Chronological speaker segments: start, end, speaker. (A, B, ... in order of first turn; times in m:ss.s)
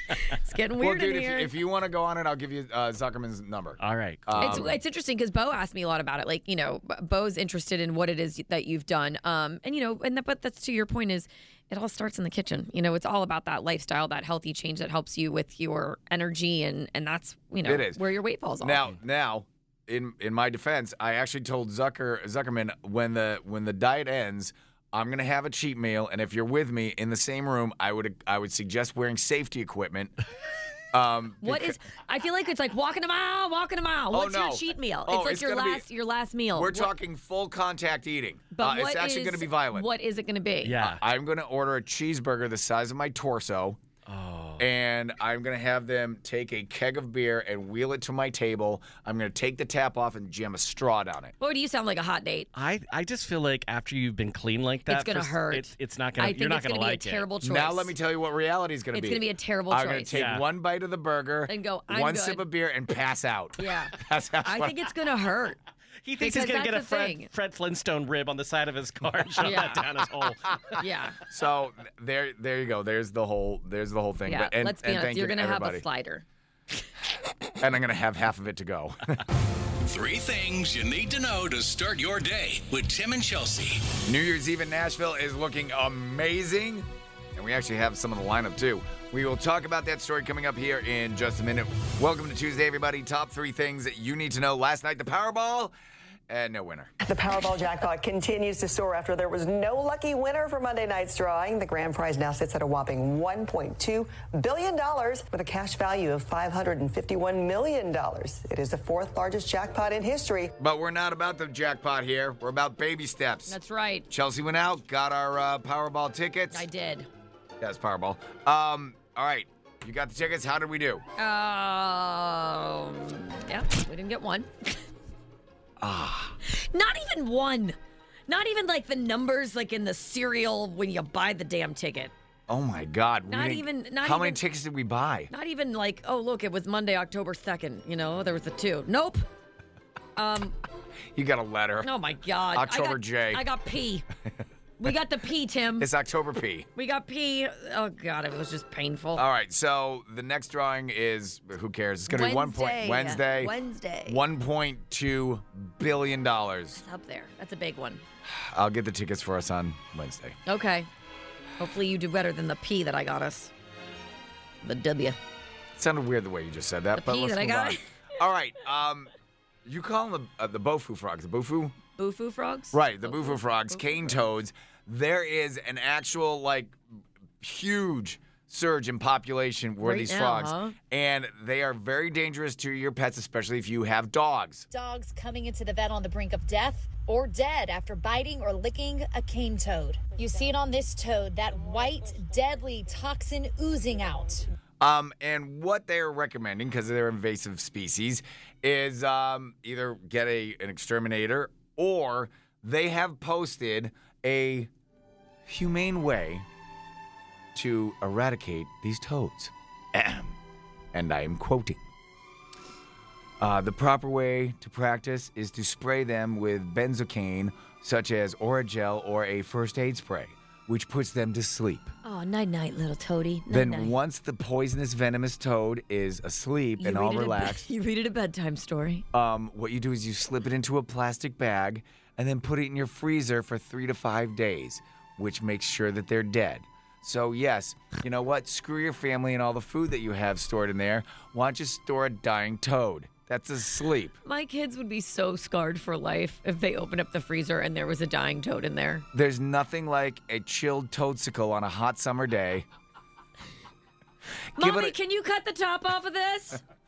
0:00.2-0:01.5 A
0:00.8-0:04.7 B
0:03.8-0:04.8 C
0:04.4-0:18.9 A
0:17.6-0:18.0 B
0:18.6-0:30.1 B
0:30.9-0:31.8 B
0:31.4-0:36.9 A
0:34.1-0:35.9 B
0:36.5-0:39.9 B
0:38.5-0:40.8 A
0:40.6-0:41.0 C
0:40.8-0:43.8 B
0:44.1-0:44.7 C
0:44.6-0:51.3 B
0:51.4-0:52.5 A
0:52.6-0:57.3 C
0:54.9-0:57.9 A
0:57.4-1:04.9 B
0:58.9-1:00.1 A
1:00.1-1:00.4 C
1:01.5-1:02.5 A
1:03.6-1:05.6 A
1:06.0-1:10.8 C
1:06.2-1:07.3 A
1:09.4-1:09.8 A
1:10.8-1:11.2 A
1:11.3-1:15.8 B
1:14.3-1:16.2 A
1:17.6-1:19.2 B
1:19.8-1:24.0 D
1:24.0-1:35.7 B
1:36.3-1:36.9 B
1:37.0-1:50.5 E
1:50.6-1:53.6 B
1:53.5-1:54.1 A
1:54.1-1:56.7 B
1:56.5-1:57.1 A
1:57.6-2:01.0 B
2:01.2-2:04.8 A
2:05.8-2:06.4 B
2:06.4-2:07.8 A
2:08.3-2:12.1 A
2:12.5-2:15.3 B
2:13.3-2:14.4 A
2:15.3-2:19.2 A
2:20.2-2:20.6 A
2:21.1-2:21.9 B
2:21.8-2:24.1 A
2:22.5-2:23.4 B
2:24.8-2:25.9 A
2:25.8-2:26.7 B
2:26.8-2:29.2 A
2:29.2-2:33.5 B
2:32.1-2:34.2 A
2:34.1-2:36.8 B
2:36.8-2:38.0 A
2:38.2-2:40.4 B
2:40.5-2:40.9 A
2:41.6-2:43.5 A
2:44.6-2:45.2 A
2:45.8-2:49.1 B
2:47.0-2:47.8 A
2:49.6-2:51.8 B
2:52.0-2:54.2 A
2:52.7-2:56.8 B
2:57.4-3:04.7 B
2:59.8-3:00.8 A
3:04.7-3:14.5 F
3:14.8-3:24.7 B
3:25.5-3:26.5 B
3:27.5-3:30.4 B
3:30.9-3:31.8 B
3:33.4-3:41.9 B
3:42.0-3:43.9 A
3:43.5-3:47.7 B
3:46.8-3:49.0 A
3:49.1-4:04.2 B
4:04.2-4:09.0 A
4:09.1-4:12.7 B
4:14.6-4:14.9 B
4:14.6-4:16.6 A